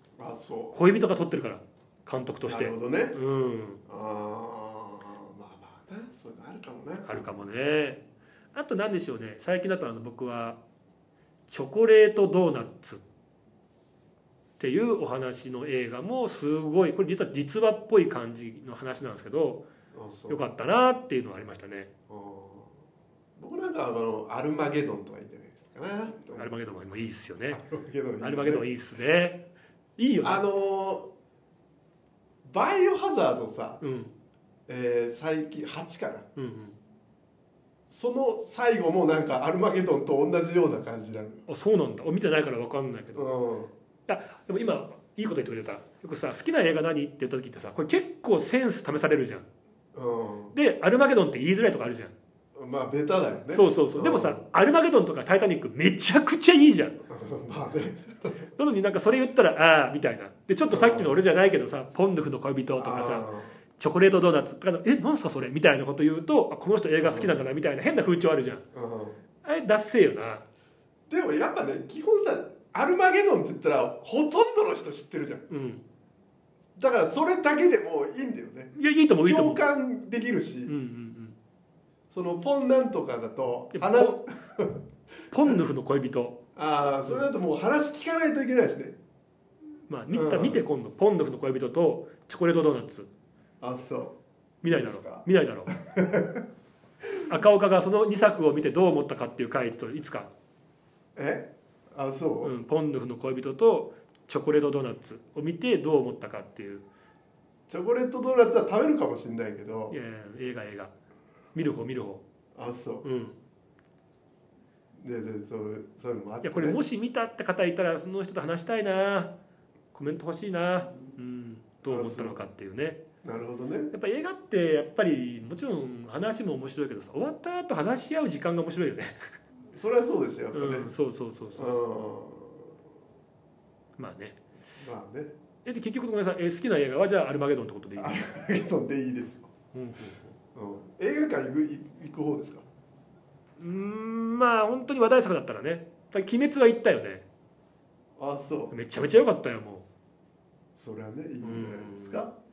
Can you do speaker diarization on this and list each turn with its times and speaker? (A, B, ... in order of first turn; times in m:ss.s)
0:00.2-0:00.8 A
0:00.7-0:03.8 B
0:02.5-0:03.2 A
0:03.9-0:07.3 A
0:07.1-0:08.0 B
0:08.5-0:10.6 B
0:11.5-0:13.0 B
0:14.6-0:19.6 B
0:19.9-0:20.4 A
0:20.3-0:21.9 B
0:22.1-0:22.7 A
0:23.4-0:26.6 A
0:26.3-0:27.6 B
0:27.5-0:28.7 A
0:28.2-0:29.4 B
0:30.0-0:30.4 B
0:30.2-0:31.1 A
0:32.4-0:33.8 A
0:33.8-0:34.1 B
0:34.7-0:36.3 A
0:36.4-0:36.8 B
0:37.9-0:41.4 A
0:41.5-0:43.2 B
0:43.2-0:43.7 A
0:44.1-0:49.5 B
0:49.9-0:50.6 A
0:50.5-0:52.1 B
0:52.6-0:54.4 A
0:53.5-0:57.0 B
0:57.1-0:58.3 A
0:58.6-1:03.3 B
1:00.7-1:01.2 A
1:02.8-1:03.5 A
1:03.8-1:08.6 B
1:07.0-1:07.4 A
1:08.7-1:09.2 A
1:09.4-1:10.4 B
1:11.1-1:15.4 A
1:15.5-1:15.8 B
1:16.8-1:18.7 A
1:18.7-1:19.6 B
1:19.2-1:20.7 A
1:20.7-1:21.4 B
1:22.1-1:24.8 A
1:23.7-1:24.2 B
1:25.3-1:26.4 B
1:26.6-1:29.0 A
1:29.9-1:33.1 B
1:30.1-1:30.6 A
1:33.6-1:36.4 A
1:34.6-1:35.7 B
1:37.3-1:40.3 B
1:41.2-1:42.5 A
1:42.4-1:46.8 B
1:47.7-1:50.0 A
1:49.9-1:50.9 B
1:51.6-1:52.2 B
1:52.6-1:53.1 A
1:53.0-1:53.4 B
1:55.0-1:56.8 A
1:56.4-1:59.3 B
1:59.9-2:03.0 B
2:01.9-2:02.4 A
2:03.2-2:03.9 A
2:03.9-2:09.2 B
2:09.7-2:10.9 A
2:10.5-2:11.8 B
2:11.6-2:12.7 A
2:14.0-2:14.4 B
2:14.8-2:15.3 A
2:15.6-2:18.2 B
2:18.0-2:19.5 A
2:19.7-2:20.3 B
2:20.6-2:22.6 A
2:23.6-2:27.2 B
2:28.2-2:28.8 A
2:28.7-2:29.9 B
2:30.8-2:32.3 A
2:31.4-2:32.2 B